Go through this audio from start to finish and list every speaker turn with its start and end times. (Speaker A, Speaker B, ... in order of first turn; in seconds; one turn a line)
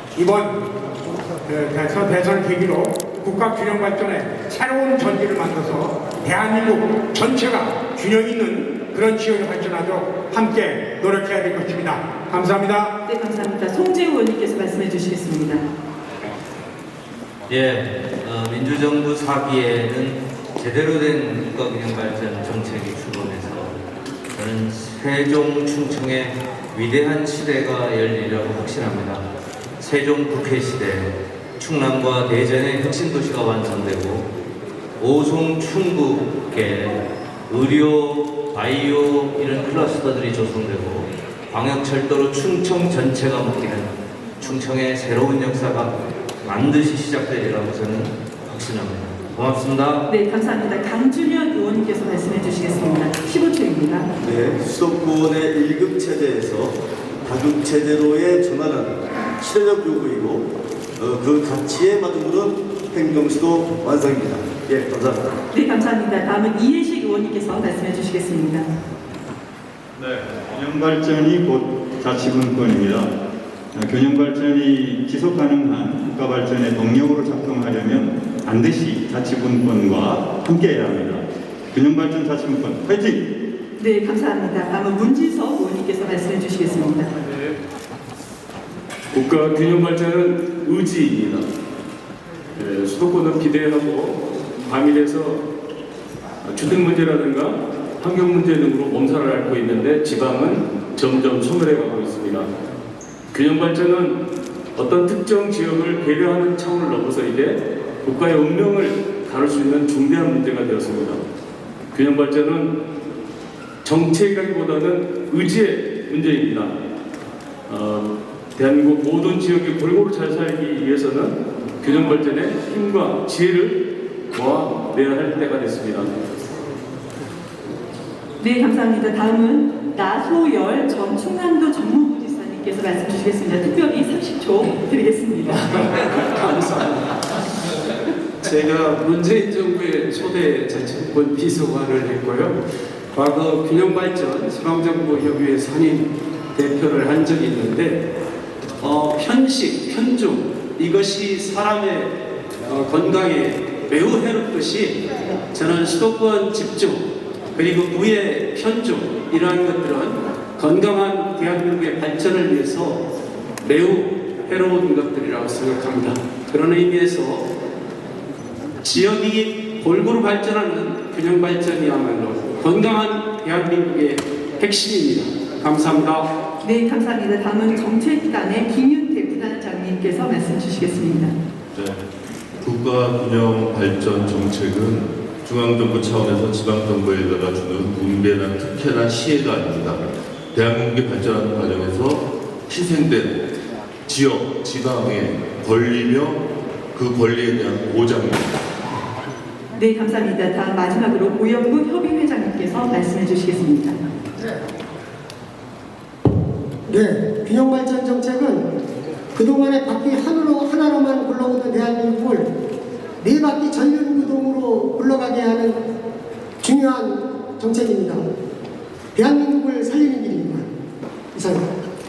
Speaker A: 0.1-0.6
Speaker A: 1.4-13.0
Speaker B: 13.1-15.7
Speaker C: 17.5-23.8
Speaker C: 24.3-29.2
Speaker C: 29.8-34.3
Speaker C: 35.0-50.1
Speaker B: 50.1-54.1
Speaker D: 54.2-65.4
Speaker B: 65.5-68.7
Speaker E: 70.0-73.1
Speaker E: 73.7-83.3
Speaker B: 83.8-87.1
Speaker F: 89.1-91.5
Speaker F: 92.5-95.4
Speaker F: 96.4-102.5
Speaker F: 103.3-104.2
Speaker F: 104.8-111.2
Speaker F: 111.9-112.7
Speaker F: 113.8-116.8
Speaker F: 117.7-126.1
Speaker B: 128.4-135.7
Speaker G: 135.6-142.6
Speaker G: 143.1-148.1
Speaker G: 148.8-163.0
Speaker G: 163.6-167.5
Speaker G: 168.8-176.3
Speaker B: 176.6-181.3
Speaker H: 181.7-182.0
Speaker H: 182.6-193.4
Speaker H: 194.1-198.6
Speaker B: 199.8-204.0
Speaker I: 206.9-208.7
Speaker I: 209.3-212.5
Speaker I: 213.2-215.8
Speaker I: 216.6-218.2
Speaker I: 219.1-220.7
Speaker I: 221.3-221.6